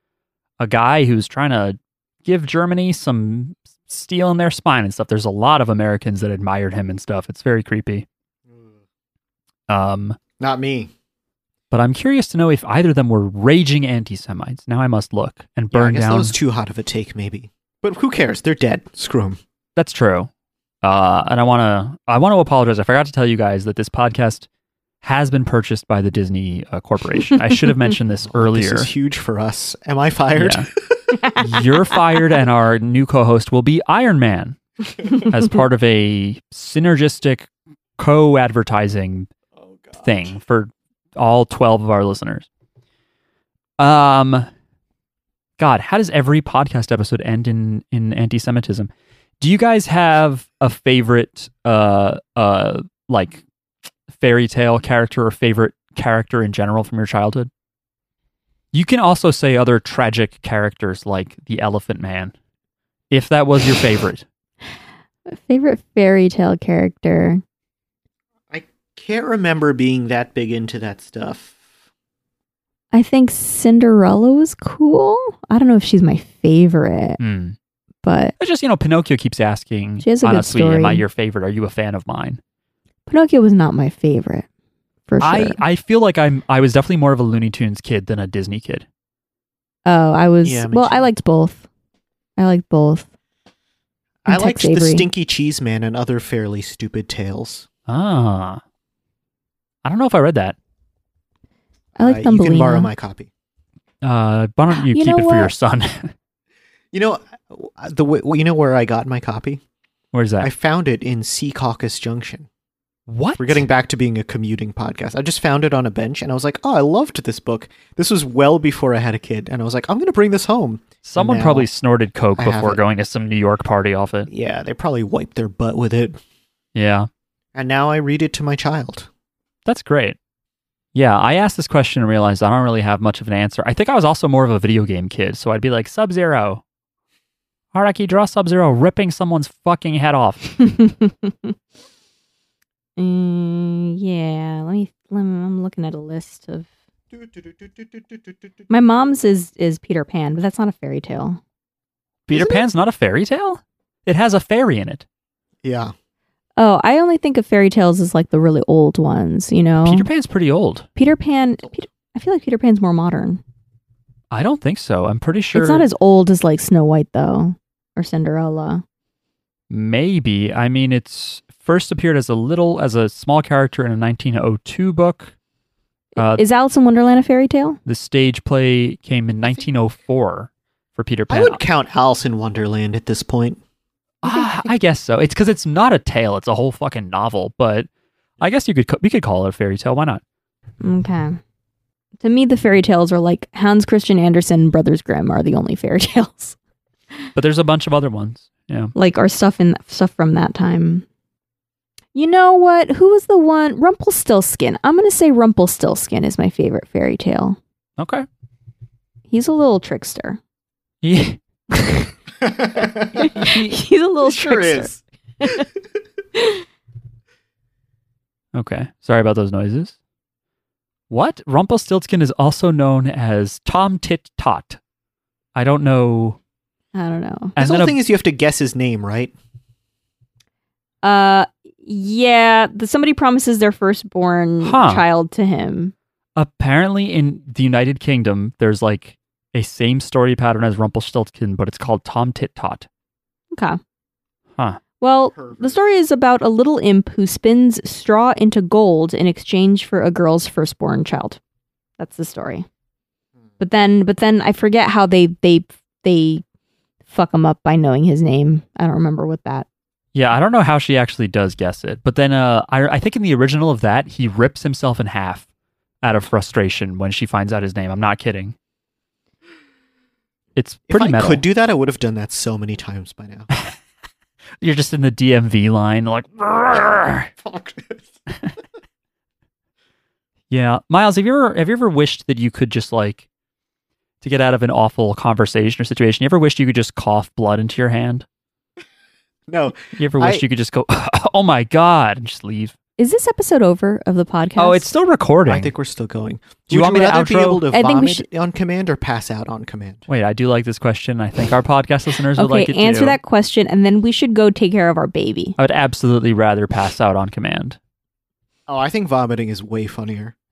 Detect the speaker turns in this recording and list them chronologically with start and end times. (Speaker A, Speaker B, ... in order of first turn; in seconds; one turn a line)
Speaker A: 0.6-8.1
Speaker A: 9.7-10.2
Speaker B: 10.4-10.9
Speaker A: 11.7-16.3
Speaker B: 15.7-19.4
Speaker A: 19.8-20.3
Speaker A: 20.8-24.5
Speaker A: 25.0-28.9
Speaker B: 28.3-31.0
Speaker A: 30.4-30.7
Speaker A: 31.4-39.3
Speaker B: 39.7-40.0
Speaker A: 40.0-42.5
Speaker A: 43.8-44.5
Speaker A: 45.6-53.4
Speaker A: 54.1-57.5
Speaker A: 58.7-62.3
Speaker A: 63.1-64.2
Speaker C: 65.3-67.4
Speaker B: 68.5-71.6
Speaker C: 72.9-77.2
Speaker A: 77.2-77.6
Speaker C: 78.0-78.3
Speaker A: 78.4-82.4
Speaker C: 80.0-81.0
Speaker C: 83.1-84.5
Speaker C: 85.1-85.6
Speaker A: 85.2-88.8
Speaker C: 89.8-91.7
Speaker B: 90.4-91.1
Speaker C: 92.4-93.1
Speaker B: 94.2-97.7
Speaker C: 94.3-95.0
Speaker A: 97.9-98.6
Speaker A: 99.8-100.5
Speaker B: 102.0-103.3
Speaker C: 102.0-102.9
Speaker A: 104.0-106.1
Speaker C: 104.7-105.5
Speaker B: 106.9-109.6
Speaker A: 110.1-110.5
Speaker B: 110.4-112.5
Speaker A: 113.1-113.6
Speaker B: 113.4-121.7
Speaker A: 121.0-124.3
Speaker B: 122.4-122.8
Speaker B: 124.3-126.2
Speaker A: 126.7-127.1
Speaker B: 127.5-129.1
Speaker A: 129.7-130.2
Speaker A: 130.9-136.6
Speaker A: 137.7-140.6
Speaker C: 140.6-141.5
Speaker C: 143.0-146.7
Speaker B: 147.1-148.3
Speaker C: 148.7-151.4
Speaker A: 152.3-155.0
Speaker B: 152.3-152.6
Speaker B: 155.6-155.9
Speaker C: 156.6-160.1
Speaker A: 159.8-160.8
Speaker C: 160.9-163.4
Speaker A: 164.3-165.9
Speaker C: 165.5-168.8
Speaker A: 169.7-175.3
Speaker A: 176.2-176.4
Speaker C: 176.2-177.8
Speaker A: 177.8-181.6
Speaker B: 181.3-183.6
Speaker A: 184.2-187.9
Speaker C: 184.2-184.7
Speaker A: 188.4-190.2
Speaker C: 190.8-191.4
Speaker C: 192.2-196.6
Speaker A: 197.3-198.9
Speaker C: 198.9-201.1
Speaker C: 202.1-207.6
Speaker A: 208.0-208.2
Speaker C: 209.3-210.4
Speaker A: 211.0-211.4
Speaker C: 211.7-212.1
Speaker B: 212.4-213.3
Speaker C: 213.1-215.7
Speaker A: 213.3-213.8
Speaker B: 214.2-215.6
Speaker A: 218.5-219.9
Speaker A: 221.1-224.8
Speaker A: 225.5-226.4
Speaker C: 226.9-227.6
Speaker A: 227.6-227.9
Speaker B: 227.6-229.3
Speaker C: 231.0-235.9
Speaker A: 234.6-235.0
Speaker A: 236.3-242.9
Speaker C: 243.5-243.8
Speaker C: 245.0-251.4
Speaker B: 245.3-245.8
Speaker C: 252.0-252.7
Speaker C: 253.6-256.4
Speaker C: 257.1-259.6
Speaker A: 260.1-265.4
Speaker A: 266.0-268.5
Speaker A: 270.6-271.4
Speaker B: 270.9-273.5
Speaker A: 274.6-277.3
Speaker B: 277.4-278.1
Speaker A: 280.5-283.2
Speaker A: 284.2-288.2
Speaker B: 289.5-290.4
Speaker A: 289.9-292.7
Speaker C: 293.0-294.9
Speaker A: 294.6-295.7
Speaker B: 295.4-300.0
Speaker A: 296.7-297.6
Speaker C: 297.7-298.2
Speaker A: 300.1-303.2
Speaker C: 302.4-305.6
Speaker A: 305.6-307.8
Speaker B: 308.7-310.3